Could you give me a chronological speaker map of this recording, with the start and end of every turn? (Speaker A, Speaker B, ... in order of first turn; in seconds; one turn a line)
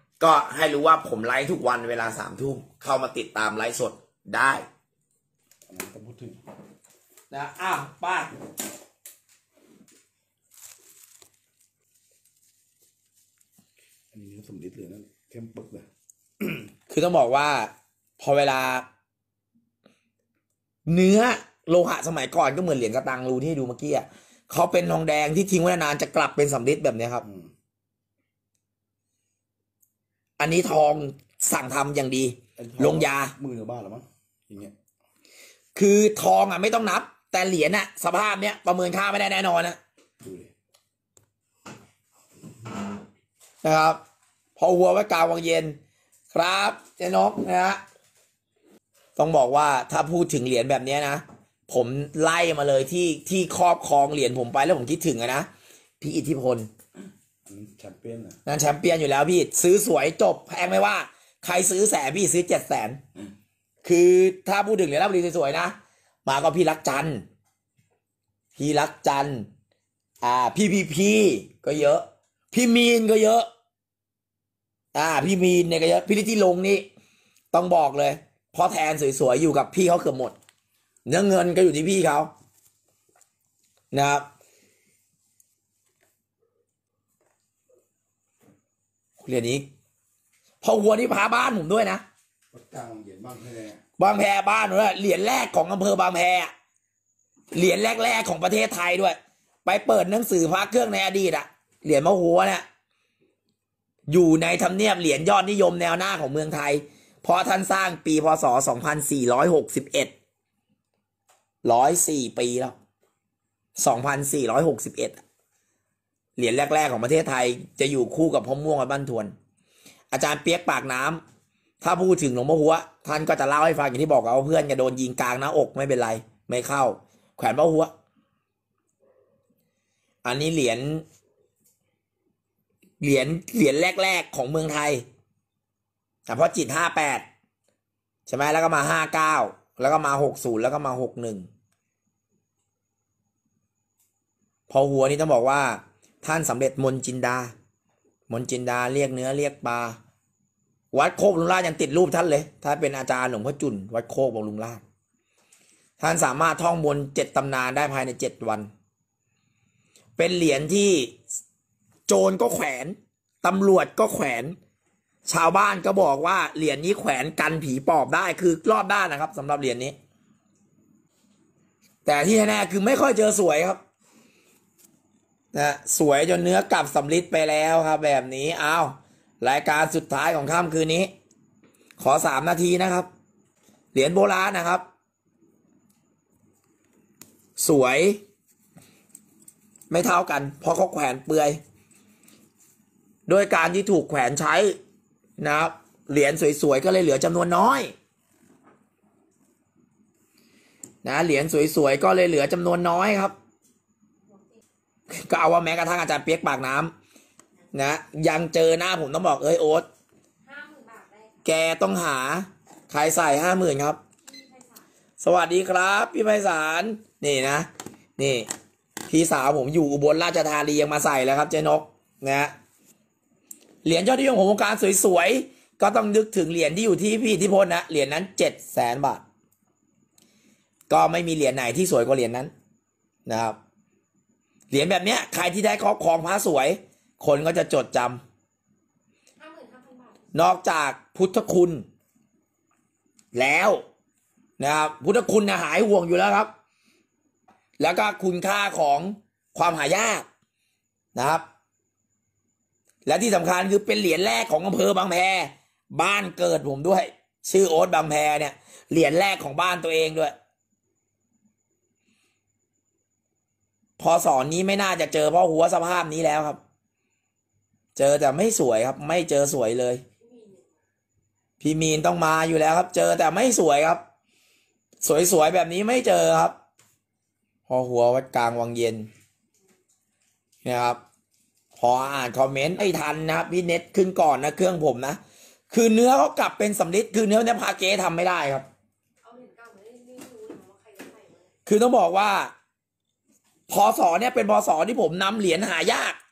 Speaker A: 0.2-4.7
Speaker B: 5.7-6.4
Speaker A: 7.3-8.3
Speaker B: 14.1-15.9
Speaker A: 16.9-18.9
Speaker A: 20.9-27.2
Speaker B: 27.2-27.5
Speaker A: 30.4-33.4
Speaker B: 32.6-34.8
Speaker A: 35.8-39.8
Speaker B: 40.2-40.5
Speaker A: 43.6-44.0
Speaker A: 44.6-45.8
Speaker A: 46.3-47.8
Speaker A: 49.2-55.5
Speaker A: 56.0-56.7
Speaker B: 57.5-58.4
Speaker A: 58.5-63.0
Speaker A: 63.8-67.2
Speaker A: 68.5-69.5
Speaker A: 70.2-73.5
Speaker A: 74.9-76.8
Speaker A: 77.5-80.3
Speaker A: 81.1-82.3
Speaker A: 83.9-84.3
Speaker A: 89.2-89.7
Speaker A: 90.6-92.0
Speaker B: 92.5-93.8
Speaker A: 94.0-96.5
Speaker A: 97.5-102.7
Speaker A: 104.1-110.1
Speaker A: 111.6-112.8
Speaker A: 113.8-115.2
Speaker A: 116.4-119.3
Speaker A: 120.1-121.2
Speaker A: 121.8-127.9
Speaker A: 130.2-131.0
Speaker A: 133.0-135.1
Speaker A: 136.3-137.2
Speaker A: 138.3-141.5
Speaker A: 144.7-147.5
Speaker A: 148.3-150.0
Speaker A: 150.9-154.8
Speaker A: 156.0-158.7
Speaker A: 160.2-161.2
Speaker A: 162.1-164.6
Speaker A: 165.3-169.9
Speaker A: 172.1-173.8
Speaker A: 175.5-181.1
Speaker A: 182.0-183.1
Speaker A: 183.9-184.8
Speaker A: 187.6-188.2
Speaker A: 189.9-191.6
Speaker A: 193.3-194.8
Speaker A: 195.4-197.9
Speaker A: 201.0-203.3
Speaker C: 204.3-204.6
Speaker A: 205.1-206.9
Speaker A: 207.7-209.9
Speaker C: 210.5-211.4
Speaker A: 211.4-214.0
Speaker C: 214.2-214.8
Speaker A: 215.2-218.5
Speaker A: 219.1-222.5
Speaker A: 223.8-229.2
Speaker A: 230.9-232.5
Speaker A: 233.3-233.6
Speaker A: 234.7-238.2
Speaker C: 239.4-240.2
Speaker A: 240.3-241.9
Speaker A: 243.3-243.8
Speaker A: 244.6-246.5
Speaker A: 247.8-250.3
Speaker A: 251.2-251.4
Speaker A: 253.1-260.3
Speaker A: 264.0-266.6
Speaker A: 268.0-270.0
Speaker C: 270.2-270.8
Speaker A: 271.6-274.0
Speaker A: 275.0-276.6
Speaker A: 277.7-279.1
Speaker A: 280.6-281.0
Speaker A: 281.8-285.2
Speaker A: 285.7-288.7
Speaker C: 289.2-291.5
Speaker A: 291.7-292.5
Speaker A: 293.7-296.2